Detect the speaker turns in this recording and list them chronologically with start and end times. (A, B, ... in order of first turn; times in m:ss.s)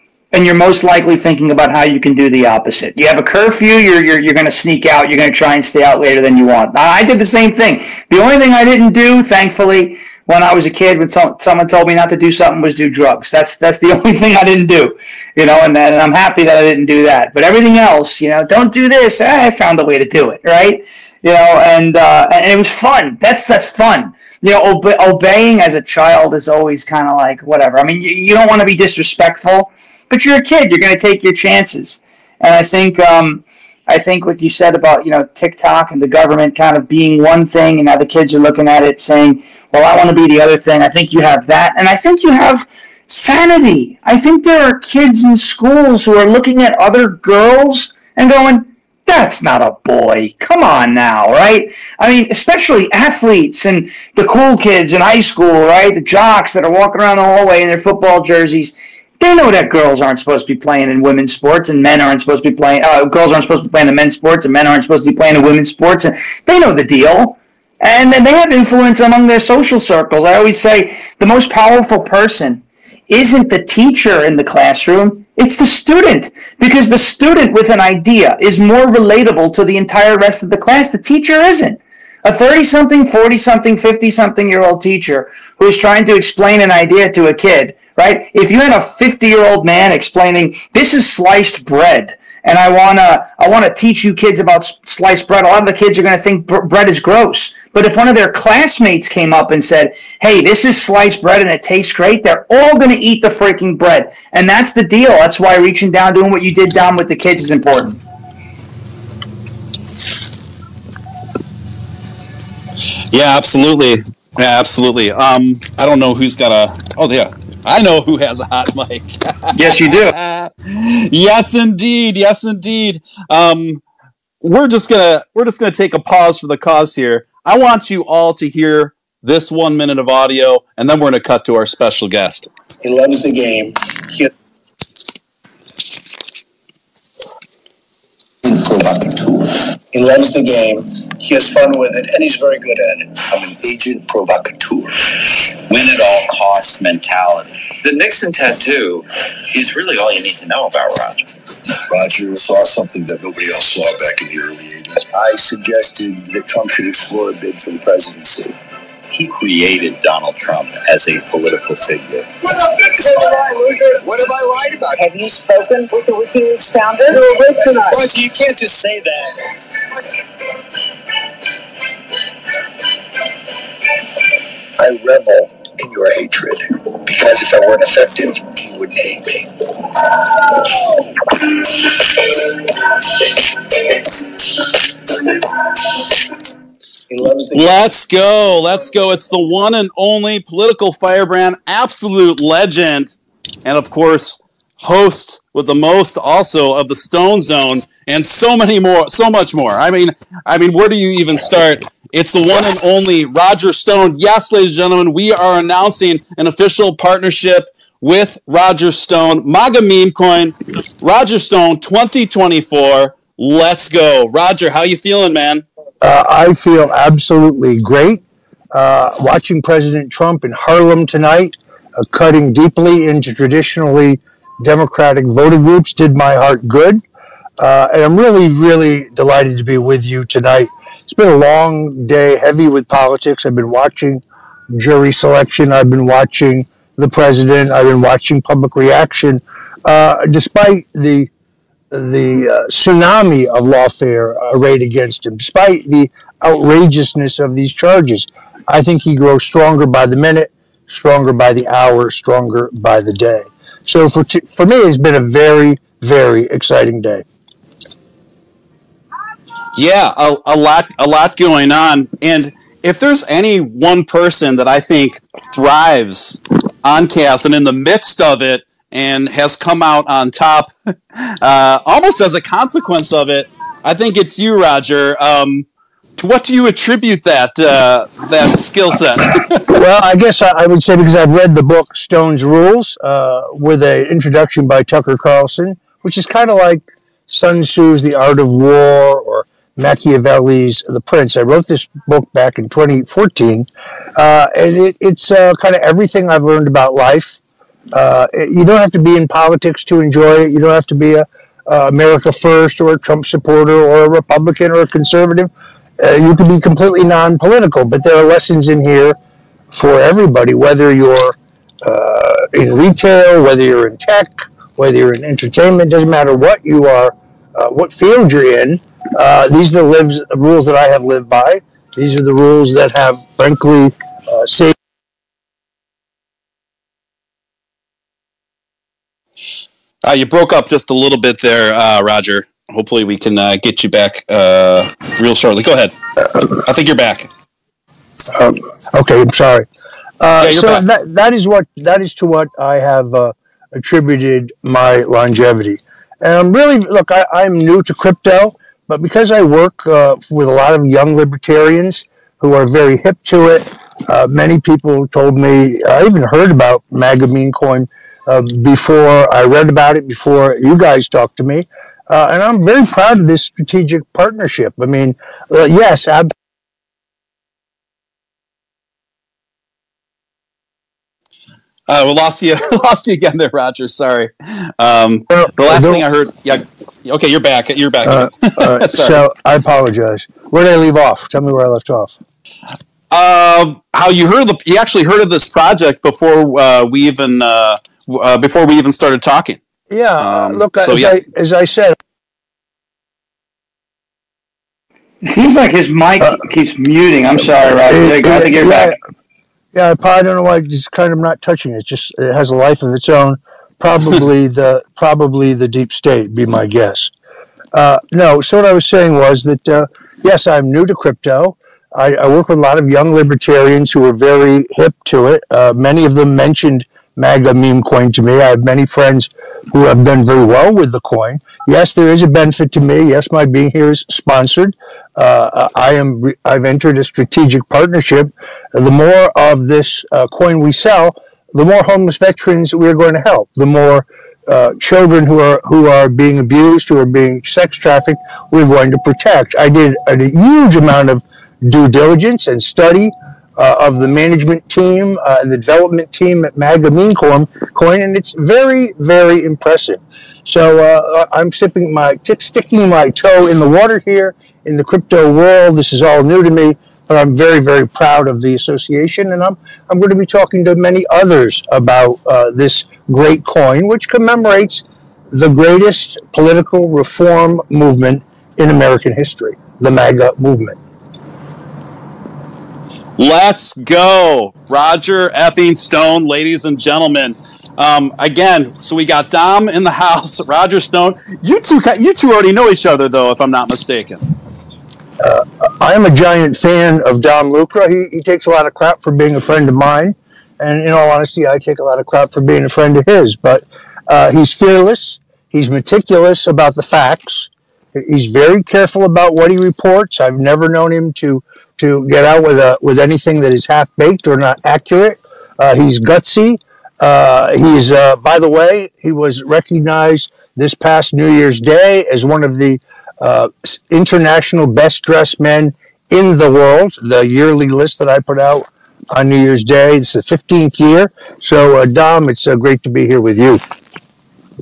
0:00.3-1:48.0 A
1:53.1-2:03.8 B
1:59.6-2:00.1 A
2:04.4-2:12.5 B
2:12.8-2:14.3 C
2:18.4-2:25.1 C
2:25.6-2:31.3 D
2:31.9-2:38.6 C
2:39.1-2:42.3 D
2:42.7-2:45.0 C
2:43.2-2:43.6 E
2:44.9-2:48.2 E
2:47.1-2:49.2 C
2:54.8-2:59.5 C
3:07.1-3:07.8 C
3:07.5-3:35.6 B
3:36.0-3:38.2 F
3:38.7-3:47.0 F
3:47.6-4:01.3 F
4:01.9-4:17.2 F
4:19.7-4:35.6 B
4:36.2-4:39.6 B
4:39.7-4:57.4 F
4:57.9-5:09.2 F
5:09.7-5:24.7 F
5:30.0-5:35.9 B
5:36.6-5:37.3 B
5:38.3-5:39.7 F
5:40.2-6:06.3 F
5:40.4-5:40.8 B
6:11.9-6:19.2 B
6:15.3-6:16.0 F
6:18.0-6:22.2 F
6:23.1-6:29.6 B
6:29.9-6:32.0 F
6:30.2-6:31.1 B
6:35.2-6:38.9 A
6:37.8-6:39.0 F
6:39.7-6:47.1 F
6:47.7-7:50.8 F
7:53.2-8:04.2 B
8:05.2-8:43.6 F